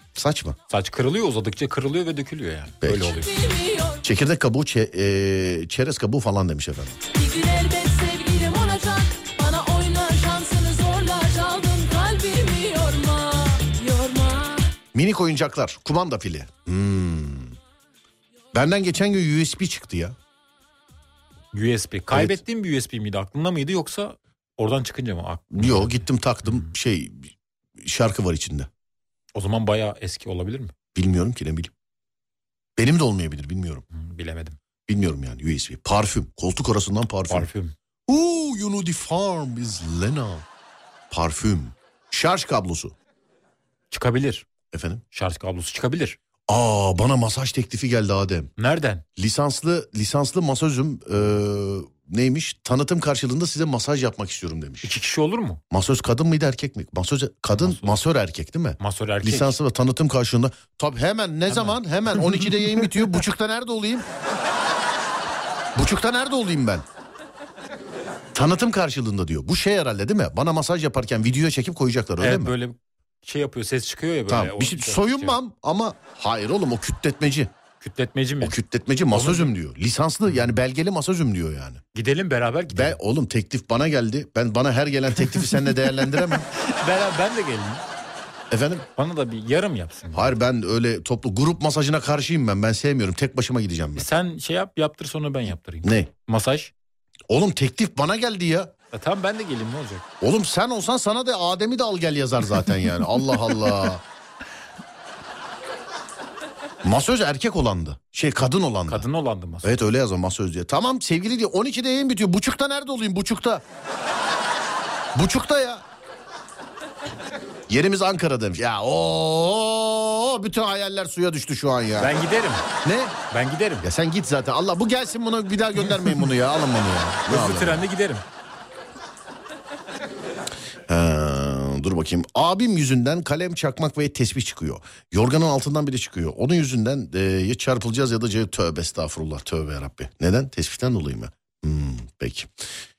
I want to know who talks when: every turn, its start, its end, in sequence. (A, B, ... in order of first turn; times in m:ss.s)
0:00.1-0:00.6 A
0:00.7-0:03.3 B
0:02.8-0:03.2 A
0:03.2-0:04.0 C
0:04.0-0:07.0 A
0:07.1-0:14.7 C
0:14.9-0:17.6 A
0:18.5-0:20.2 A
0:21.5-0:26.7 B
0:22.1-0:22.4 A
0:25.5-0:28.7 A
0:29.3-0:30.7 B
0:30.9-0:31.7 A
0:32.8-0:33.8 A
0:33.9-0:34.6 B
0:34.9-0:37.5 A
0:37.3-0:37.7 B
0:38.1-0:40.4 A
0:41.1-0:42.9 A
0:43.9-0:44.4 B
0:44.7-0:45.0 A
0:45.1-0:46.2 B
0:46.5-0:48.5 A
0:48.6-0:49.0 B
0:49.2-0:54.9 A
0:54.8-0:55.6 B
0:55.7-1:04.0 A
0:57.6-0:58.0 B
0:58.8-0:59.6 B
1:01.5-1:02.5 B
1:05.7-1:06.8 A
1:08.3-1:12.5 A
1:12.2-1:15.4 B
1:14.3-1:17.5 A
1:17.8-1:18.6 B
1:18.4-1:21.8 A
1:19.1-1:19.5 B
1:21.9-1:23.0 B
1:22.7-1:26.5 A
1:26.1-1:27.8 B
1:28.5-1:28.8 A
1:29.0-1:30.4 B
1:30.1-1:34.0 A
1:34.0-1:36.7 B
1:35.8-1:36.1 A
1:37.3-1:38.7 A
1:38.9-1:40.0 B
1:40.2-1:44.0 A
1:46.8-1:49.1 A
1:48.9-1:49.7 B
1:49.6-1:53.6 A
1:55.1-1:55.8 A
1:57.7-2:02.1 A
2:02.0-2:02.6 B
2:02.8-2:03.2 A
2:03.3-2:03.8 B
2:03.8-2:07.8 A
2:07.3-2:08.2 B
2:10.9-2:22.5 A